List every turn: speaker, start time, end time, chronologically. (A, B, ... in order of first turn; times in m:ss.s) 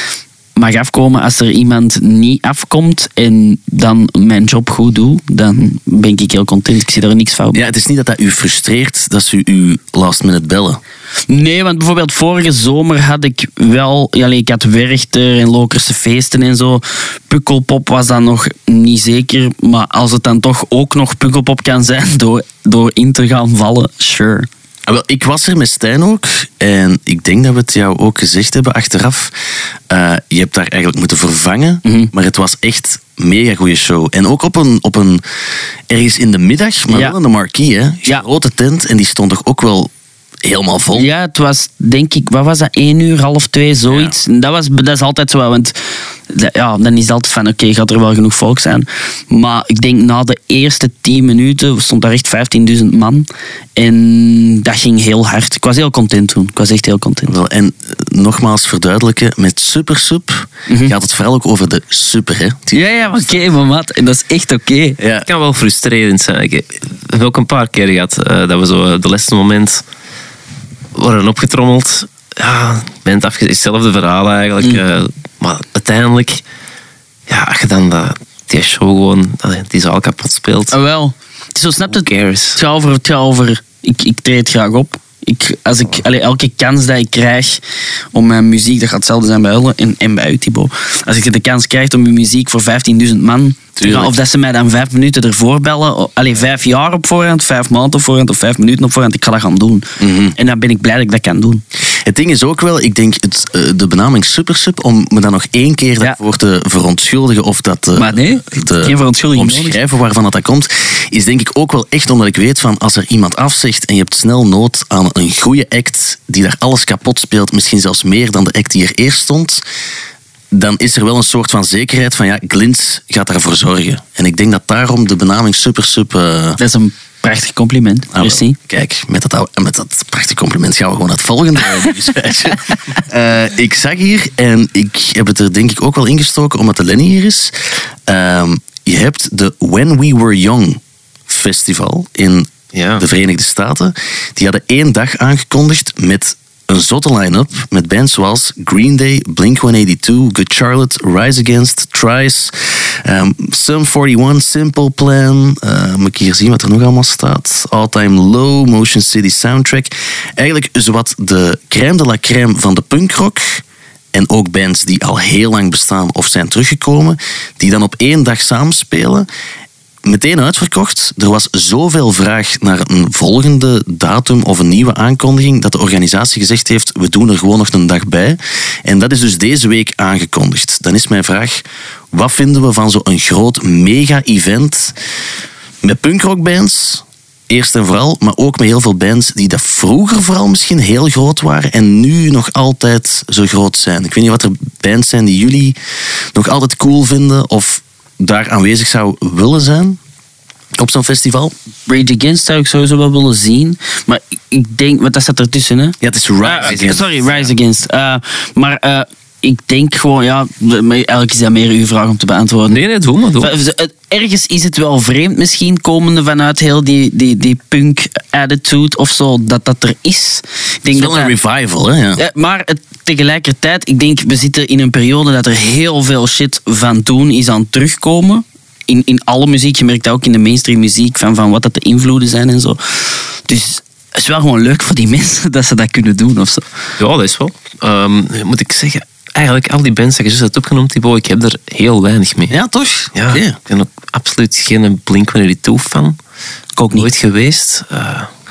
0:00.6-0:07.6 A
0:07.5-0:10.8 B
0:11.3-0:24.5 A
0:24.9-0:29.3 B
0:29.9-0:35.2 B
0:31.8-0:32.1 A
0:35.9-0:39.9 B
0:36.9-0:37.2 A
0:40.4-0:41.1 B
0:40.9-0:45.8 A
0:43.9-0:44.2 B
0:46.3-0:57.4 A
0:57.3-1:03.4 B
1:00.7-1:00.9 A
1:02.7-1:05.0 A
1:05.0-1:05.3 B
1:05.3-1:09.8 C
1:11.0-1:16.4 C
1:17.3-1:20.8 C
1:20.7-1:27.6 A
1:21.9-1:22.6 C
1:28.1-1:41.6 A
1:33.8-1:34.1 B
1:40.0-1:40.4 B
1:42.0-1:59.6 B
1:48.0-1:49.8 A
2:00.5-2:06.6 B
2:06.6-2:08.6 A
2:08.1-2:49.3 B
2:22.7-2:23.0 C
2:50.0-3:05.0 B
3:05.8-3:15.8 B
3:16.4-3:20.0 B
3:20.8-3:21.5 B
3:21.9-3:32.8 A
3:26.0-3:27.0 B
3:26.6-3:27.5 C
3:32.7-3:33.5 C
3:33.4-3:41.3 A
3:40.9-3:42.2 B
3:42.2-3:56.6 A
3:57.0-4:02.6 C
4:02.5-4:03.6 B
4:03.2-4:06.2 C
4:06.8-4:07.1 A
4:06.9-4:08.3 C